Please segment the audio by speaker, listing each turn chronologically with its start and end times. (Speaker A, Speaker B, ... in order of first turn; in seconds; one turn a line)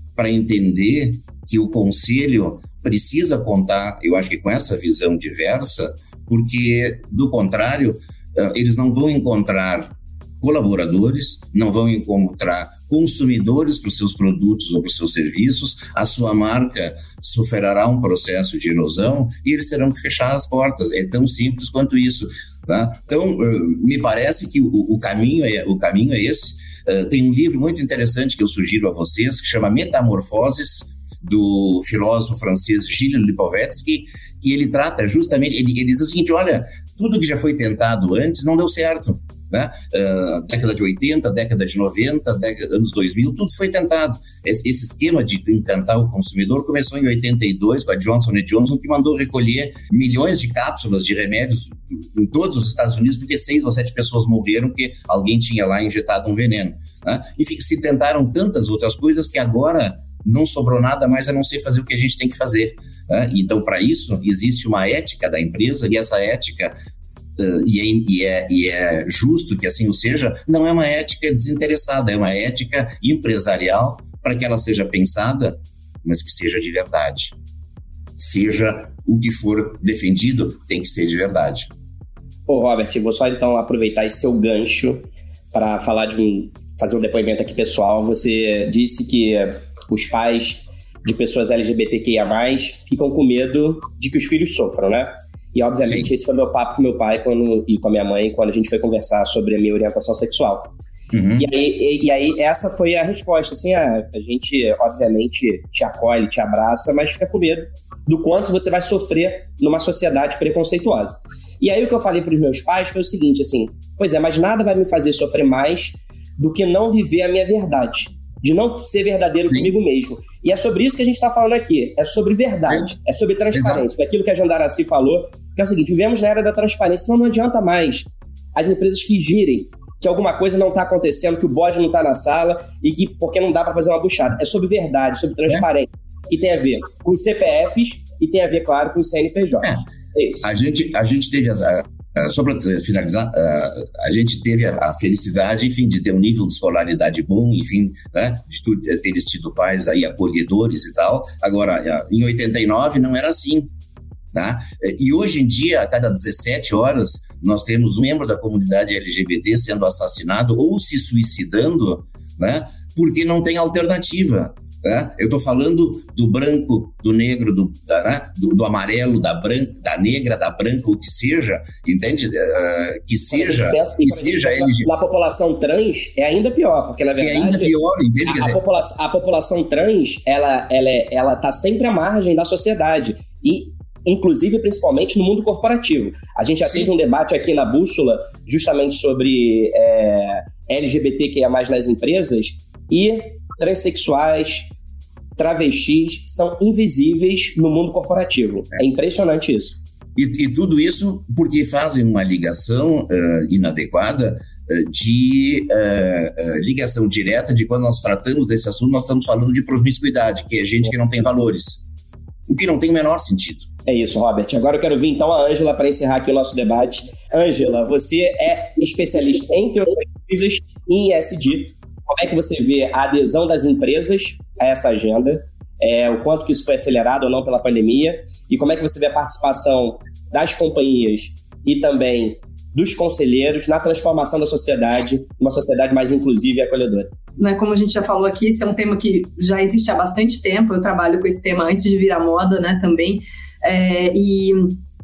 Speaker A: 0.1-66.7
Speaker A: 67.4-77.3
Speaker A: 78.2-81.7
Speaker B: 82.5-85.0
Speaker B: 85.5-100.7
Speaker A: 101.1-101.5
Speaker B: 101.4-140.4
Speaker A: 123.5-123.8
Speaker A: 140.4-153.7
Speaker A: 154.3-174.9
Speaker B: 173.3-177.7
Speaker A: 177.2-178.6
Speaker B: 178.2-194.7
Speaker B: 195.4-199.8
Speaker A: 200.2-211.8
Speaker A: 212.5-213.7
Speaker B: 213.8-237.1
Speaker C: 237.4-244.8